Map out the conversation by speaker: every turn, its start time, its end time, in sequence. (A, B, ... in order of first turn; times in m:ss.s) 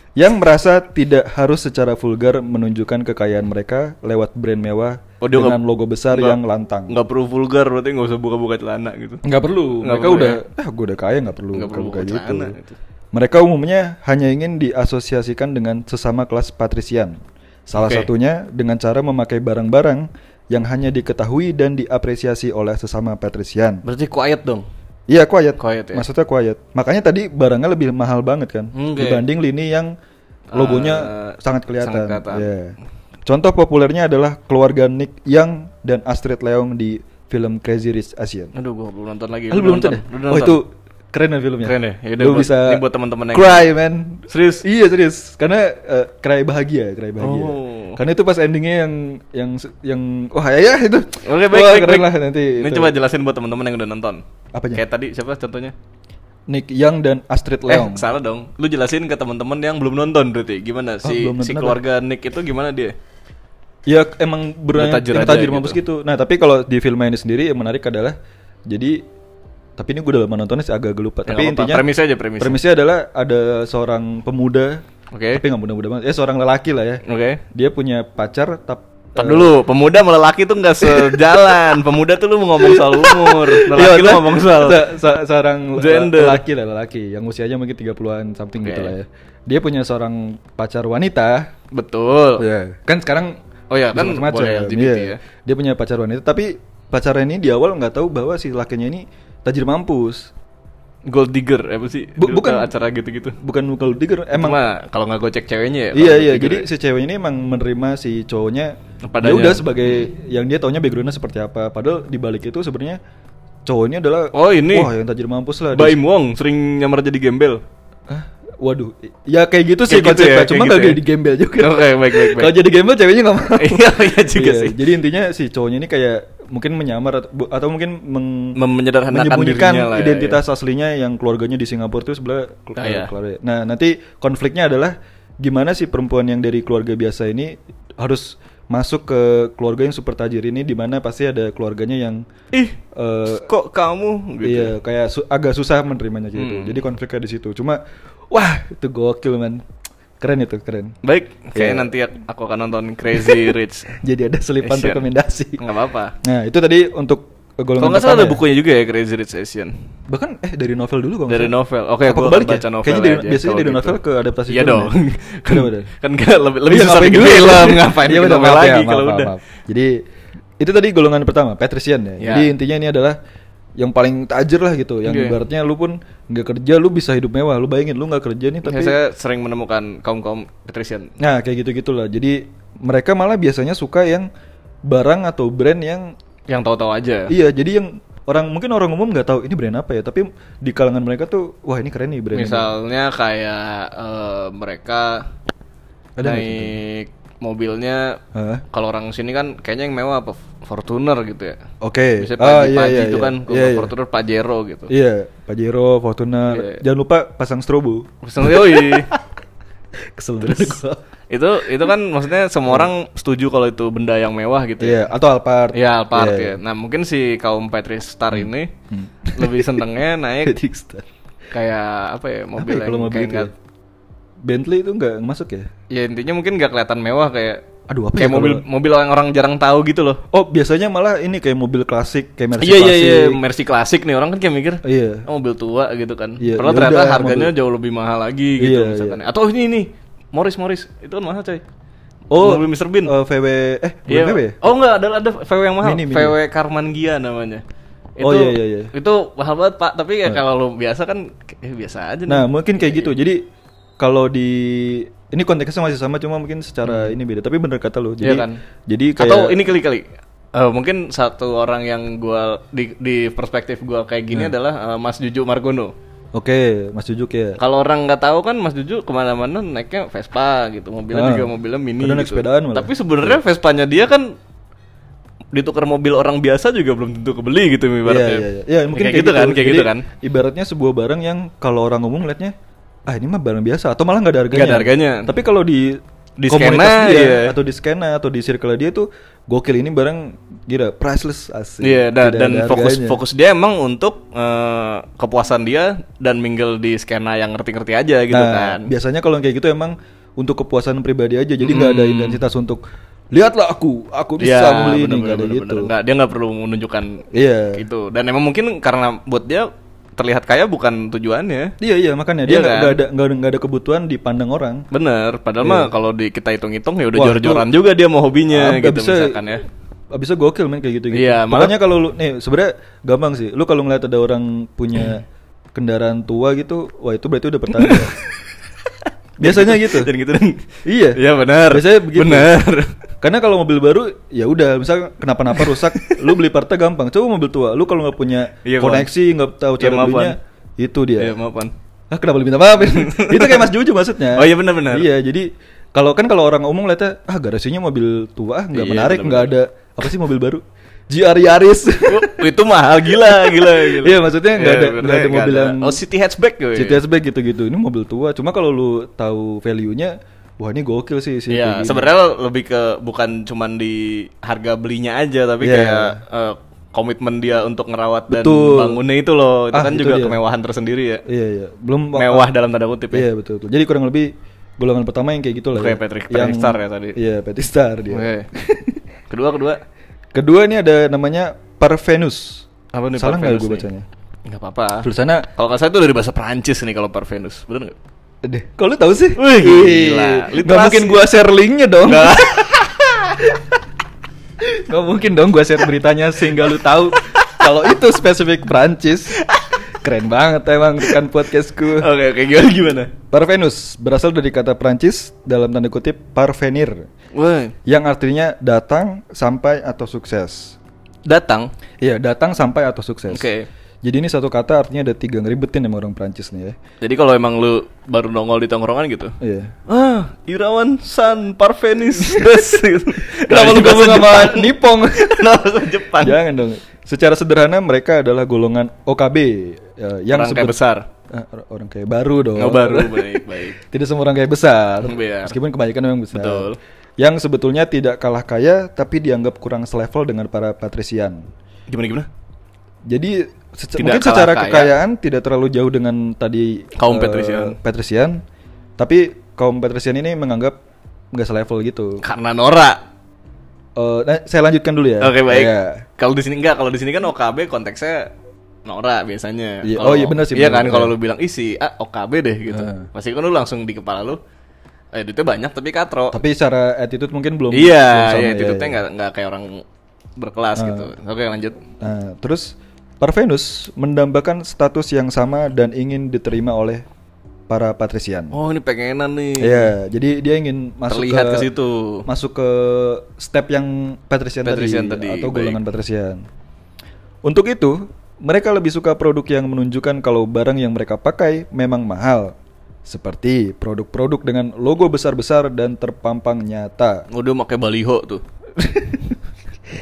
0:00.2-0:06.9 A
0:05.2-0:05.6 B
0:06.1-0:06.4 B
0:06.9-0:09.2 B
0:09.2-0:12.6 A
0:09.8-0:10.4 B
0:11.5-0:12.8 B
0:13.1-0:23.8 A
0:17.8-0:18.1 B
0:23.8-0:24.6 B
0:25.1-0:29.9 A
0:25.6-0:26.0 B
0:28.7-0:29.2 B
0:30.5-0:32.5 B
0:30.5-0:32.7 A
0:33.3-0:38.5 A
0:38.5-0:40.6 B
0:39.5-0:52.9 A
0:41.6-0:43.7 B
0:44.3-0:44.6 B
0:47.2-0:48.0 B
0:51.2-0:54.2 B
0:54.5-0:54.8 A
0:54.7-0:55.7 B
0:56.5-0:58.0 A
0:57.7-1:02.9 B
1:01.0-1:01.8 A
1:03.9-1:08.2 A
1:04.8-1:05.8 B
1:08.7-1:09.0 A
1:09.8-1:11.9 A
1:11.3-1:12.6 B
1:12.4-1:17.0 A
1:15.1-1:15.4 B
1:17.0-1:17.4 B
1:17.5-1:19.5 A
1:19.2-1:24.9 B
1:20.8-1:21.3 A
1:22.6-1:31.5 A
1:25.8-1:26.4 B
1:28.6-1:28.9 B
1:31.7-1:32.4 B
1:32.4-1:33.4 A
1:33.7-1:35.2 B
1:33.9-1:40.3 A
1:41.1-1:43.4 B
1:42.2-1:42.7 A
1:43.4-1:44.6 A
1:44.3-1:46.7 B
1:45.9-1:53.0 A
1:49.1-1:49.9 B
1:53.6-1:56.0 A
1:54.3-1:54.9 B
1:55.7-1:57.6 B
1:58.1-2:08.6 A
1:59.9-2:01.0 B
2:01.6-2:02.6 B
2:03.6-2:04.8 B
2:08.6-2:10.4 B
2:09.1-2:22.2 A
2:12.8-2:13.1 B
2:22.9-2:23.5 A
2:23.3-2:24.7 B
2:24.4-2:27.8 A
2:26.4-2:26.8 B
2:28.3-2:29.6 A
2:30.2-2:30.9 A
2:31.0-2:34.0 B
2:31.6-2:31.9 A
2:33.1-2:35.6 A
2:34.6-2:35.0 B
2:35.6-2:36.1 B
2:36.2-2:38.4 A
2:37.8-2:39.7 B
2:40.1-2:44.9 A
2:41.3-2:49.3 B
2:45.5-2:45.9 A
2:46.7-2:50.0 A
2:50.6-2:53.2 A
2:52.2-2:52.5 B
2:53.8-2:58.9 A
2:55.1-2:55.4 B
2:58.6-3:01.1 B
3:01.2-3:04.3 A
3:04.9-3:06.1 A
3:06.5-3:07.3 B
3:07.3-3:12.7 A
3:12.3-3:15.2 B
3:16.2-3:16.7 A
3:16.2-3:18.2 B
3:18.3-3:18.6 A
3:18.7-3:21.6 B
3:21.8-3:23.9 A
3:22.2-3:24.9 B
3:24.9-3:29.2 A
3:26.5-3:26.8 B
3:28.2-3:29.1 B
3:30.1-3:31.0 A
3:30.4-3:30.8 B
3:31.3-3:35.0 B
3:34.8-3:36.6 A
3:35.7-3:38.7 B
3:38.3-3:39.9 A
3:39.4-3:40.6 B
3:40.4-3:41.1 A
3:41.5-3:43.5 B
3:42.6-3:43.5 A
3:44.4-3:45.7 A
3:45.9-3:47.6 B
3:47.9-3:48.6 A
3:48.2-3:50.2 B
3:50.3-3:53.4 A
3:52.6-4:01.6 B
3:54.8-3:55.2 A
3:56.4-3:57.5 A
3:58.6-3:59.2 A
4:02.3-4:04.6 A
4:02.4-4:03.1 B
4:04.1-4:07.6 B
4:05.8-4:06.4 A
4:08.2-4:13.1 B
4:08.2-4:08.9 A
4:12.3-4:13.4 A
4:14.0-4:19.6 A
4:16.8-4:17.1 B
4:18.2-4:18.6 B
4:19.2-4:25.9 B
4:26.3-4:27.6 A
4:27.6-4:34.3 B
4:31.1-4:33.4 A
4:35.5-4:40.1 B
4:38.0-4:42.5 A
4:43.1-4:53.2 A
4:44.5-4:45.3 B
4:46.4-4:47.6 B
4:51.8-4:58.9 B
4:58.3-5:02.8 A
5:01.6-5:02.4 B
5:03.3-5:05.9 A
5:04.4-5:11.7 B
5:07.3-5:07.8 A
5:11.8-5:14.8 A
5:12.4-5:13.0 B
5:14.9-5:19.6 B
5:15.6-5:15.9 A
5:17.1-5:17.7 A
5:18.5-5:19.4 A
5:20.1-5:25.2 A
5:21.1-5:21.8 B
5:25.8-5:28.1 A
5:27.8-5:28.3 B
5:29.4-5:30.1 A
5:29.4-5:32.9 B
5:30.9-5:32.6 A
5:33.2-5:41.4 A
5:35.6-5:36.2 B
5:38.6-5:39.1 B
5:39.8-5:40.4 B
5:41.2-5:41.7 B
5:42.1-5:52.5 A
5:42.8-5:43.7 B
5:44.4-5:45.1 B
5:48.7-5:49.5 B
5:52.1-5:57.0 B
5:53.0-5:56.0 A
5:56.8-6:02.1 A
6:01.5-6:11.2 B
6:05.6-6:06.2 A
6:08.3-6:09.0 A
6:09.7-6:10.4 A
6:11.3-6:12.5 A
6:12.1-6:13.3 B
6:13.1-6:19.0 A
6:15.8-6:17.2 B
6:18.1-6:18.5 B
6:19.3-6:19.8 B
6:20.3-6:24.0 A
6:22.9-6:23.9 B
6:24.4-6:27.9 B
6:25.0-6:25.5 A
6:28.4-6:33.6 A
6:29.4-6:31.3 B
6:32.0-6:32.8 B
6:34.6-6:39.4 A
6:39.4-6:39.7 B
6:40.0-6:42.1 A
6:41.9-6:43.1 B
6:43.3-6:47.0 A
6:47.3-6:47.8 B
6:47.8-6:50.8 A
6:51.3-6:51.7 B
6:52.0-6:53.5 A
6:53.3-6:53.7 B
6:54.0-6:56.8 A
6:57.0-6:59.4 B
6:59.4-6:59.7 A
6:59.9-7:06.4 B
7:02.1-7:10.8 A
7:10.3-7:11.1 B
7:11.3-7:16.7 A
7:12.6-7:13.8 B
7:15.0-7:15.6 B
7:16.3-7:16.8 B
7:17.2-7:21.4 A
7:21.9-7:22.3 B
7:23.1-7:28.4 A
7:24.0-7:24.9 B
7:27.0-7:27.8 B
7:29.0-7:30.8 A
7:31.3-7:32.2 A
7:32.2-7:33.0 B
7:34.0-7:36.0 A
7:35.2-7:38.3 B
7:38.9-7:44.4 B
7:39.8-7:41.1 A
7:42.7-7:43.1 A
7:45.1-7:46.4 B
7:46.3-7:49.0 A
7:47.7-7:49.8 B
7:50.4-7:51.8 B
7:50.8-7:51.1 A
7:52.0-7:57.1 A
7:57.7-7:58.6 A
7:58.5-7:59.9 B
7:59.6-8:01.7 A
8:01.1-8:02.3 B
8:02.3-8:06.4 A
8:04.6-8:05.8 B
8:07.4-8:12.6 A
8:13.1-8:17.2 A
8:17.3-8:18.4 B
8:18.8-8:19.4 A